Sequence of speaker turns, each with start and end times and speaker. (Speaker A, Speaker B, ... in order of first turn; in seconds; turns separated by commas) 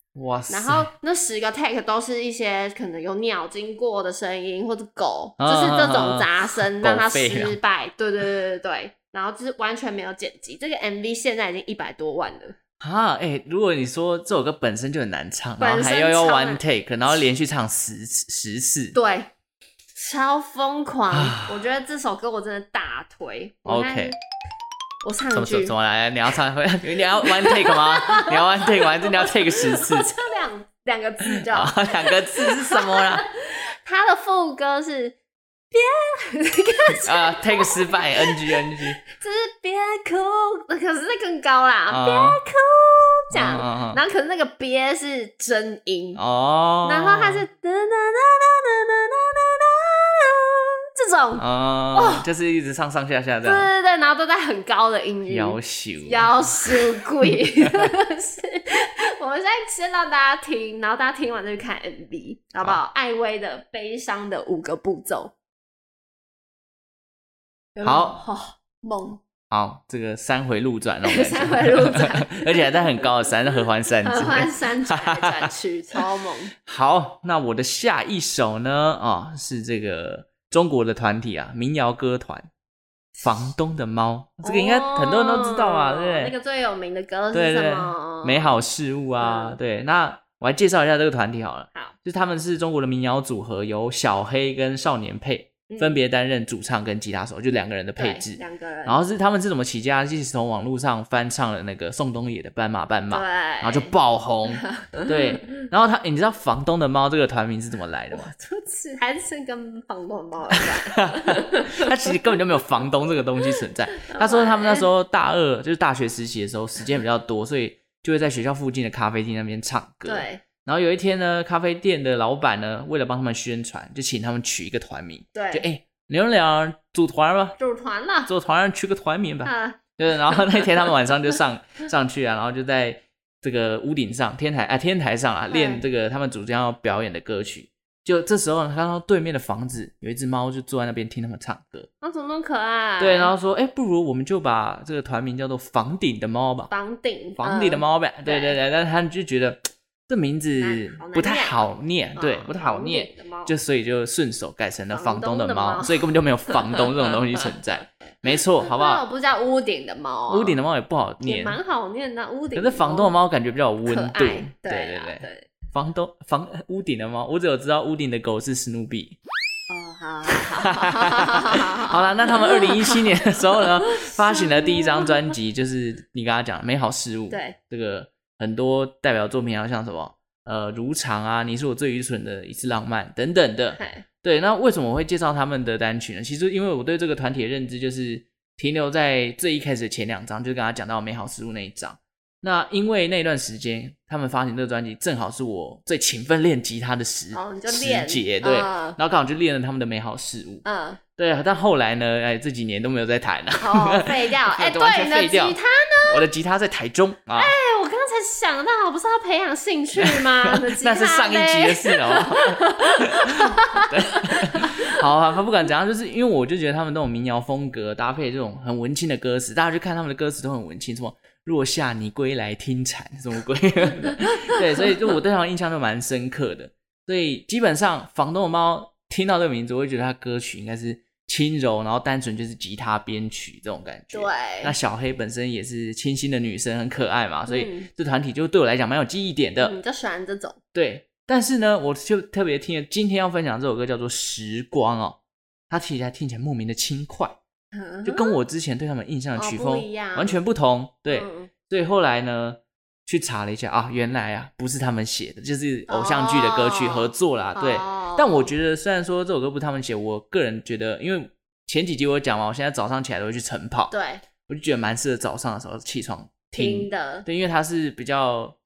Speaker A: 0.2-0.9, Speaker B: 0.5-12.6, Speaker A: 5.4-7.6, Speaker A: 12.8-18.9, Speaker B: 15.6-17.2, Speaker B: 18.9-19.3, Speaker B: 19.9-24.2, Speaker A: 21.1-21.4, Speaker A: 23.6-24.1, Speaker B: 25.0-25.8, Speaker A: 25.3-30.1, Speaker B: 27.2-35.2, Speaker A: 31.3-33.2, Speaker B: 35.7-46.2, Speaker A: 37.0-39.0, Speaker A: 41.9-42.4, Speaker A: 43.3-44.0, Speaker A: 46.1-47.4, Speaker B: 46.8-52.3, Speaker A: 51.4-53.7, Speaker B: 53.4-65.3, Speaker A: 55.3-56.8, Speaker B: 67.8-69.2, Speaker A: 67.8-68.2, Speaker A: 69.5-76.0, Speaker B: 71.0-73.0, Speaker B: 74.0-76.5, Speaker A: 76.7-82.5, Speaker A: 83.2-86.3, Speaker B: 84.4-88.6, Speaker A: 87.3-108.3, Speaker B: 89.2-89.6, Speaker B: 95.7-96.0, Speaker B: 98.0-99.0, Speaker B: 103.1-104.0, Speaker B: 104.5-105.5, Speaker B: 108.1-112.1, Speaker A: 111.0-127.6, Speaker B: 114.1-114.9, Speaker B: 120.0-120.4, Speaker B: 125.3-125.7, Speaker B: 127.6-128.3, Speaker A: 128.3-141.9, Speaker B: 129.4-130.7, Speaker B: 135.5-135.8, Speaker B: 142.0-143.3, Speaker A: 143.0-146.7, Speaker B: 146.7-148.6, Speaker A: 147.4-159.0, Speaker B: 150.6-153.5, Speaker B: 154.9-156.9, Speaker B: 158.3-160.6, Speaker A: 160.3-161.6, Speaker B: 161.2-163.2, Speaker A: 162.6-169.2, Speaker B: 163.9-165.5, Speaker B: 169.7-175.2, Speaker A: 170.8-200.6, Speaker B: 177.3-177.6, Speaker B: 183.8-184.1, Speaker B: 197.3-199.0, Speaker B: 200.6-201.0, Speaker A: 201.2-207.5, Speaker B: 203.6-206.3, Speaker B: 207.4-214.9, Speaker A: 210.0-239.8, Speaker B: 234.1-234.8, Speaker B: 237.5-237.9, Speaker B: 239.6-240.6, Speaker A: 240.7-245.2, Speaker A: 245.7-247.4, Speaker B: 247.7-248.3, Speaker A: 248.0-263.9, Speaker B: 249.4-250.4, Speaker B: 251.1-251.5, Speaker B: 255.9-258.5, Speaker B: 263.9-264.2, Speaker A: 264.5-268.6, Speaker B: 266.5-267.3